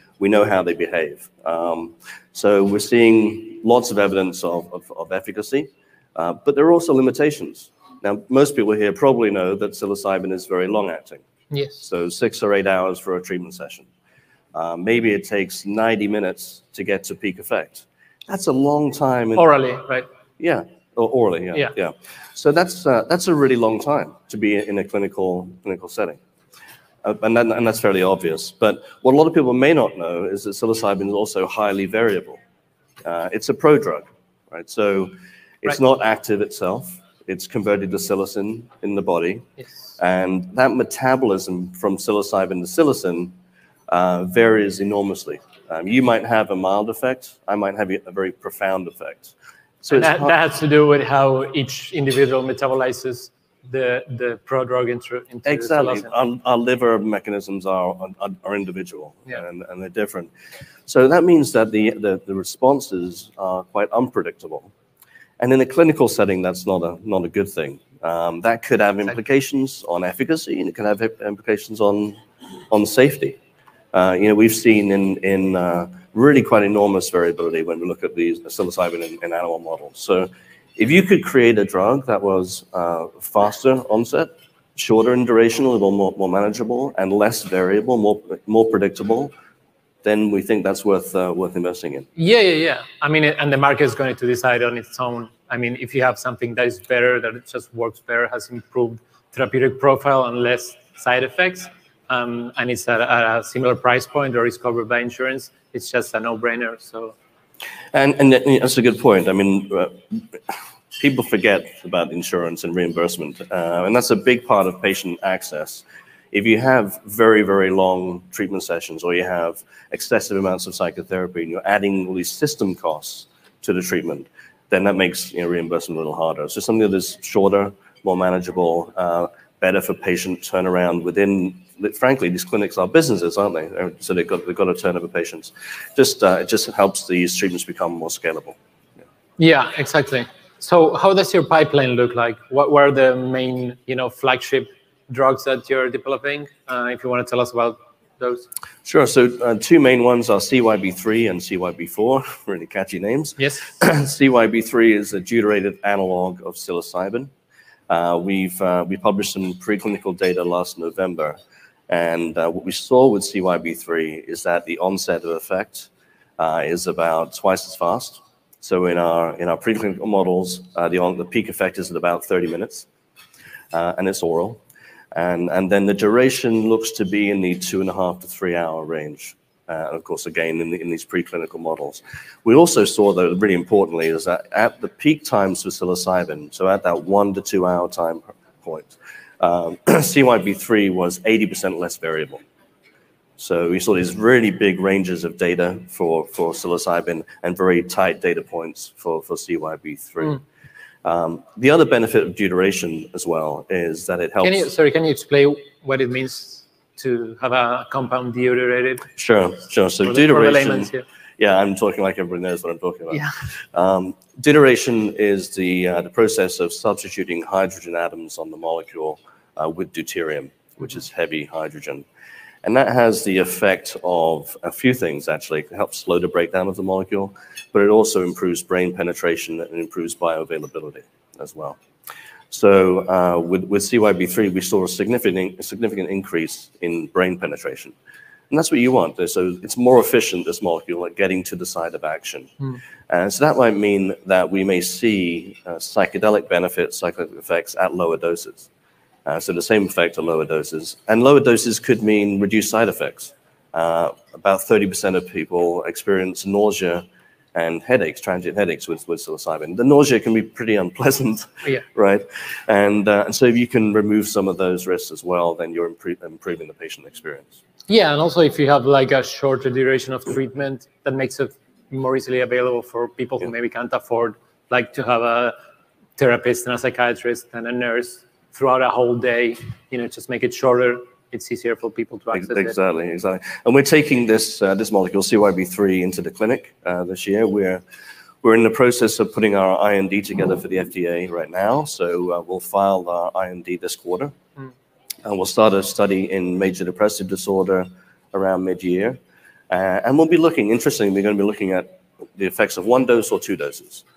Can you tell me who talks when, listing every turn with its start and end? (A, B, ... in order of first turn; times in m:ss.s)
0:00.2-0:11.2 A
0:11.5-0:11.8 B
0:11.8-0:13.9 A
0:14.5-0:19.5 A
0:19.3-0:20.1 B
0:20.4-0:26.2 A
0:27.0-0:32.4 A
0:33.0-0:39.4 A
0:40.0-0:43.3 A
0:43.9-0:50.4 A
0:49.9-0:56.1 B
0:55.4-1:00.3 A
1:00.9-1:04.7 A
1:05.4-1:12.2 A
1:12.7-1:13.4 A
1:13.9-1:29.3 A
1:30.0-1:32.0 A
1:32.2-1:47.2 B
1:47.9-1:50.4 A
1:51.0-2:18.6 A
2:19.4-2:28.5 B
2:28.8-2:37.3 A
2:33.4-2:33.7 B
2:37.9-2:41.4 A
2:41.9-2:52.9 A
2:53.7-2:54.6 A
2:55.1-3:12.4 A
3:13.4-3:20.4 A
3:21.0-3:24.7 A
3:24.4-3:29.1 B
3:29.2-3:42.0 A
3:30.0-3:31.0 B
3:42.6-3:51.8 A
3:52.5-3:57.9 A
3:58.5-4:02.6 A
4:03.1-4:08.7 A
4:09.2-4:27.6 A
4:27.9-4:35.5 B
4:36.2-4:42.7 B
4:42.3-4:47.8 A
4:48.4-4:54.3 A
4:55.2-4:59.2 A
4:59.7-5:04.0 A